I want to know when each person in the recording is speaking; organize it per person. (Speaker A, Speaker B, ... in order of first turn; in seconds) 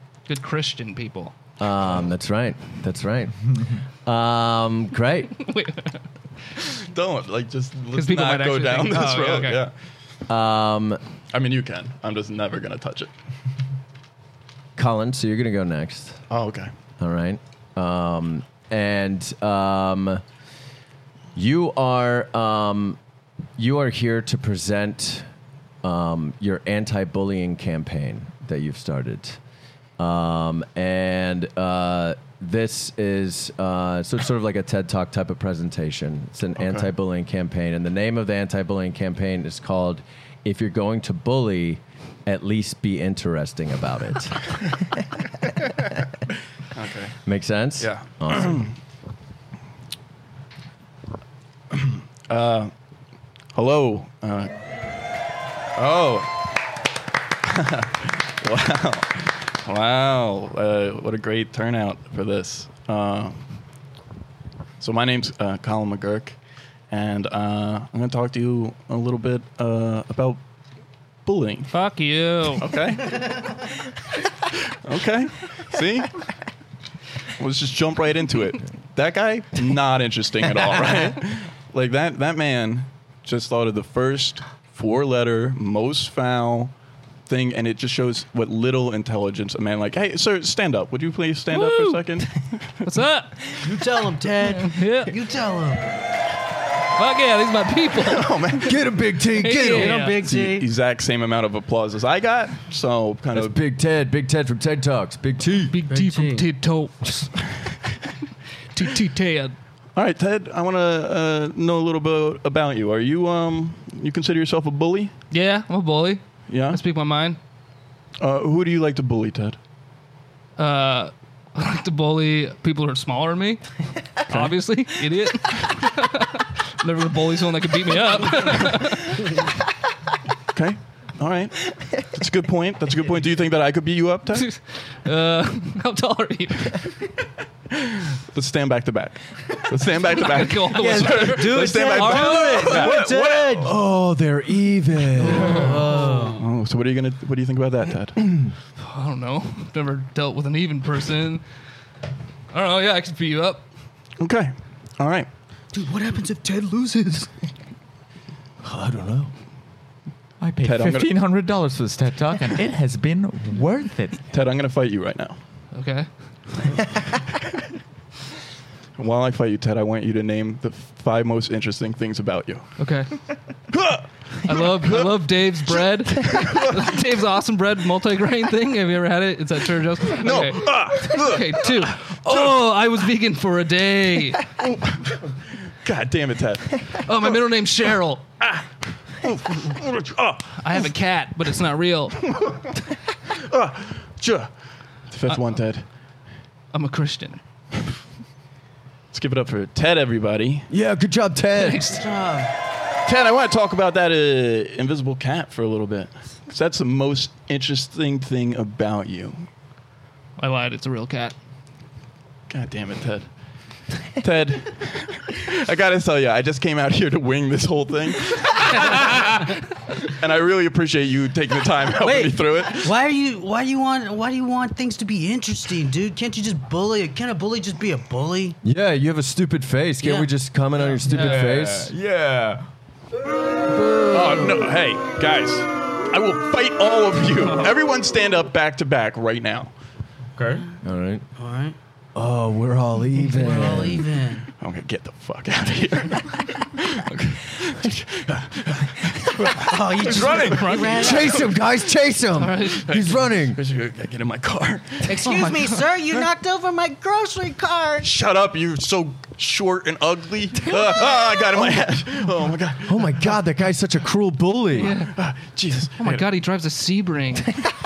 Speaker A: 0.3-1.3, 5.4-6.0, 7.9-9.7, 71.7-72.7, 91.5-92.2, 92.8-93.4, 94.4-95.1, 97.0-98.5, 99.4-100.2, 105.7-107.6, 108.7-109.5, 115.3-117.4, 120.6-123.6, 124.2-129.3, 134.3-137.0, 140.0-143.0, 145.2-145.9, 148.8-151.4, 152.5-153.6, 165.7-166.4, 172.8-173.1, 174.4-184.5, 187.0-188.2, 190.6-192.2, 196.7-197.4, 201.6-202.0, 210.4-211.3, 231.0-231.4, 250.1-251.5, 252.4-252.9, 255.1-255.8, 264.8-265.1, 266.0-267.6
Speaker B: 1.6-3.5, 4.0-5.3, 10.3-11.0, 14.8-16.2, 17.0-20.2, 21.3-23.0, 23.6-25.3, 25.8-29.4, 30.0-45.0, 47.2-48.7, 98.6-99.9, 103.3-105.7, 143.6-145.8, 158.6-159.3, 200.7-201.9, 228.6-231.9, 240.8-241.2, 242.1-244.1, 250.8-253.6, 262.9-265.0
Speaker C: 6.7-9.7, 11.3-13.1, 16.3-16.7, 36.6-36.9, 46.7-47.1, 47.8-48.7, 51.7-52.7, 53.5-54.5, 55.8-56.4, 57.4-63.4, 64.8-66.4, 66.9-70.4, 71.2-71.7, 72.6-73.7, 74.5-76.3, 77.4-86.7, 87.2-92.8, 98.0-98.8, 100.2-103.5, 109.9-115.1, 116.5-116.8, 118.2-119.6, 124.3-124.5, 130.5-134.5, 138.3-143.5, 145.8-148.4, 154.2-155.3, 160.6-161.3, 164.3-165.4, 169.0-172.8, 173.7-176.9, 180.1-182.7, 184.6-185.2, 185.8-187.3, 188.4-190.8, 193.3-194.5, 195.1-195.8, 199.1-200.7, 203.1-209.4, 212.5-213.3, 214.2-219.5, 220.0-222.9, 234.1-239.7, 244.6-250.7, 252.8-255.1, 258.0-263.4, 264.8-266.2
Speaker D: 93.6-95.8, 99.7-100.7, 105.9-106.5, 140.8-143.7, 145.4-146.4, 155.7-157.3, 201.9-202.5, 222.0-228.6, 230.0-230.3, 241.4-241.8, 243.3-244.5, 249.6-251.4, 255.1-258.1
Speaker E: 160.4-164.2, 231.0-232.7, 240.3-240.7, 250.2-250.6